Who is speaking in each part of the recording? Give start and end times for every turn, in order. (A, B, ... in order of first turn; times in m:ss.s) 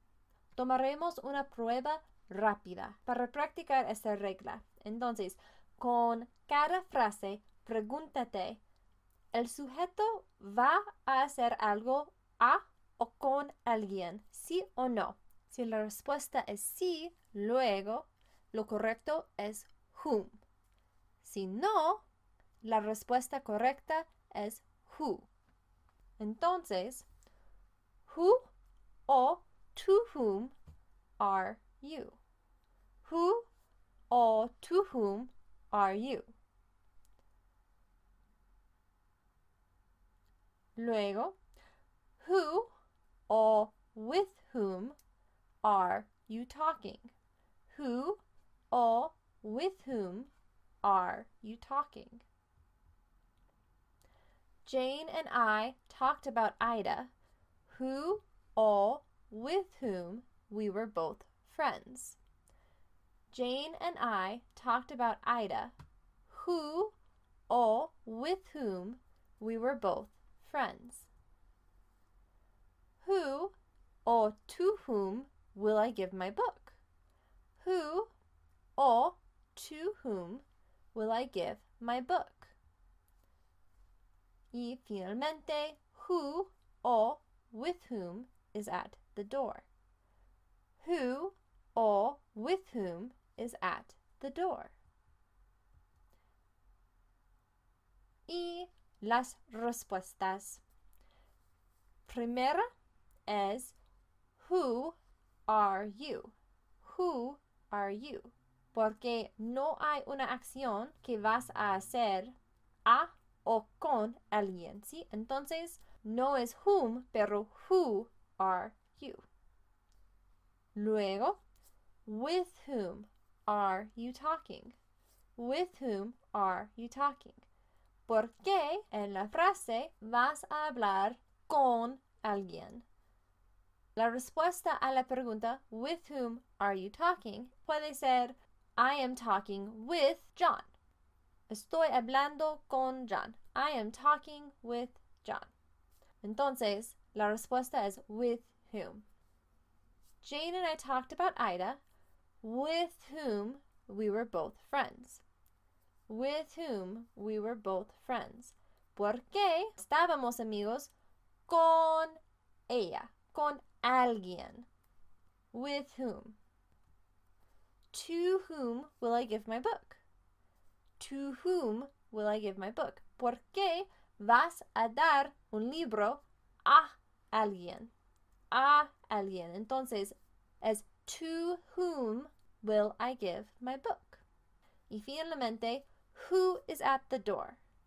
0:00.6-0:08.6 A
0:09.3-0:20.4 A
0:21.2-0:22.0 A
0:22.6-0:25.3 A
0:26.2-0:27.1 A
0:28.1-0:28.5 A
0:29.1-0:30.6 A
0:31.2-0:32.2 A
0:33.0-0:33.5 A
0:34.1-0:36.3 A
0:40.8-0:41.4 A
0:42.2-0:42.7 A
0:43.3-0:45.0 A
0:45.6-0:47.1 A
0:47.7-0:50.3 A
0:50.8-0:52.2 A
0:54.6-0:57.1 A
0:57.7-1:02.2 A
1:03.3-1:05.8 A
1:06.3-1:07.0 A
1:07.5-1:11.1 A
1:13.0-1:13.5 A
1:14.0-1:16.8 A
1:17.6-1:18.1 A
1:18.8-1:22.6 A
1:24.5-1:29.7 A
1:30.8-1:34.8 A
1:38.3-1:40.6 A
1:42.1-1:42.7 A
1:43.3-1:43.8 A
1:44.4-1:59.3 A
2:00.8-2:01.4 A
2:02.1-2:04.8 A
2:05.4-2:07.5 A
2:08.1-2:12.8 A
2:14.0-2:20.7 A
2:21.5-2:25.5 A
2:26.2-2:29.0 A
2:30.2-2:31.8 A
2:32.4-2:35.2 A
2:36.1-2:40.9 A
2:41.5-2:44.7 A
2:45.5-2:46.4 A
2:47.9-2:50.0 A
2:51.0-2:57.9 A
2:58.5-3:04.2 A
3:04.9-3:07.6 A